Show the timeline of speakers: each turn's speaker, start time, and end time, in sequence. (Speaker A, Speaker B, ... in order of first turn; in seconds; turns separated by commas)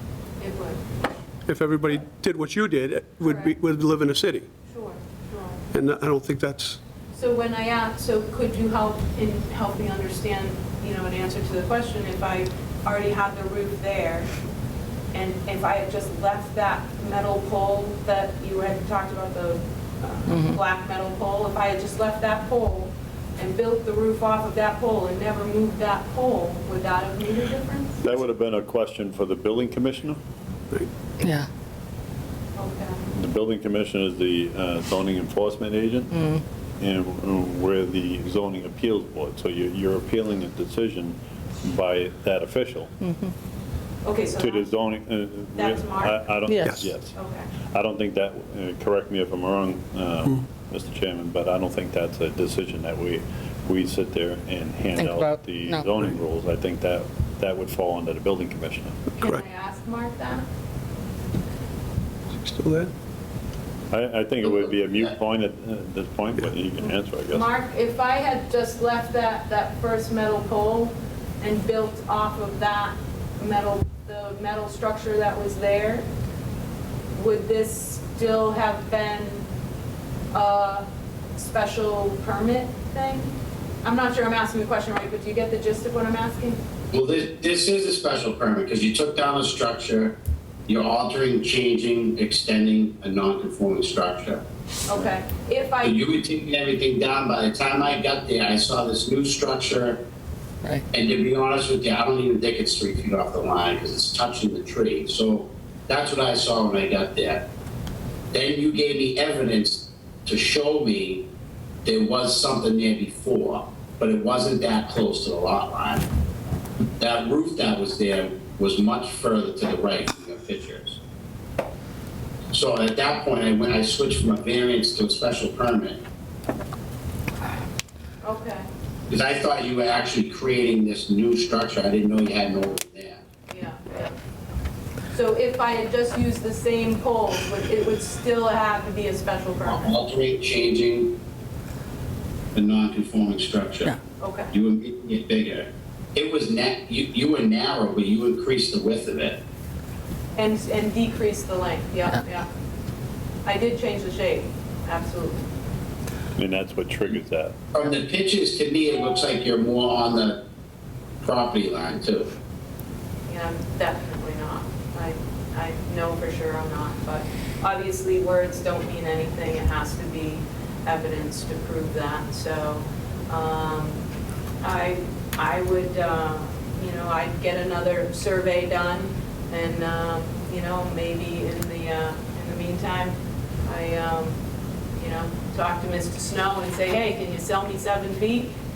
Speaker A: 0.4-0.8, Speaker B: 1.5-4.5, Speaker A: 3.2-3.5, Speaker A: 4.7-5.6, Speaker B: 5.7-6.8, Speaker A: 7.1-14.3, Speaker A: 15.1-28.0, Speaker C: 28.0-30.2, Speaker D: 31.2-31.5, Speaker A: 32.6-33.0, Speaker C: 33.1-36.1, Speaker D: 36.1-36.4, Speaker C: 36.8-42.9, Speaker A: 44.0-44.6, Speaker C: 44.4-47.1, Speaker A: 45.5-46.3, Speaker D: 46.5-46.8, Speaker B: 46.6-46.9, Speaker A: 47.0-47.5, Speaker C: 47.7-59.0, Speaker D: 55.0-55.9, Speaker A: 59.2-60.5, Speaker B: 59.2-59.4, Speaker B: 62.3-62.9, Speaker C: 63.9-67.5, Speaker A: 67.3-76.0, Speaker A: 77.1-79.5, Speaker A: 80.3-83.3, Speaker A: 83.8-86.6, Speaker E: 86.9-94.4, Speaker A: 94.9-96.0, Speaker E: 95.8-100.0, Speaker E: 100.9-107.5, Speaker E: 108.3-111.3, Speaker E: 111.8-116.0, Speaker E: 117.0-121.0, Speaker E: 122.5-126.0, Speaker A: 128.2-128.6, Speaker E: 129.1-133.2, Speaker A: 133.5-134.2, Speaker A: 135.1-140.0, Speaker E: 139.6-141.2, Speaker E: 142.5-144.0, Speaker A: 144.2-144.5, Speaker E: 144.5-149.4, Speaker A: 150.3-152.5, Speaker A: 153.4-155.4, Speaker C: 156.3-157.6, Speaker E: 157.7-160.4, Speaker E: 161.2-162.3, Speaker A: 163.3-174.0, Speaker A: 174.6-184.4, Speaker A: 185.0-188.5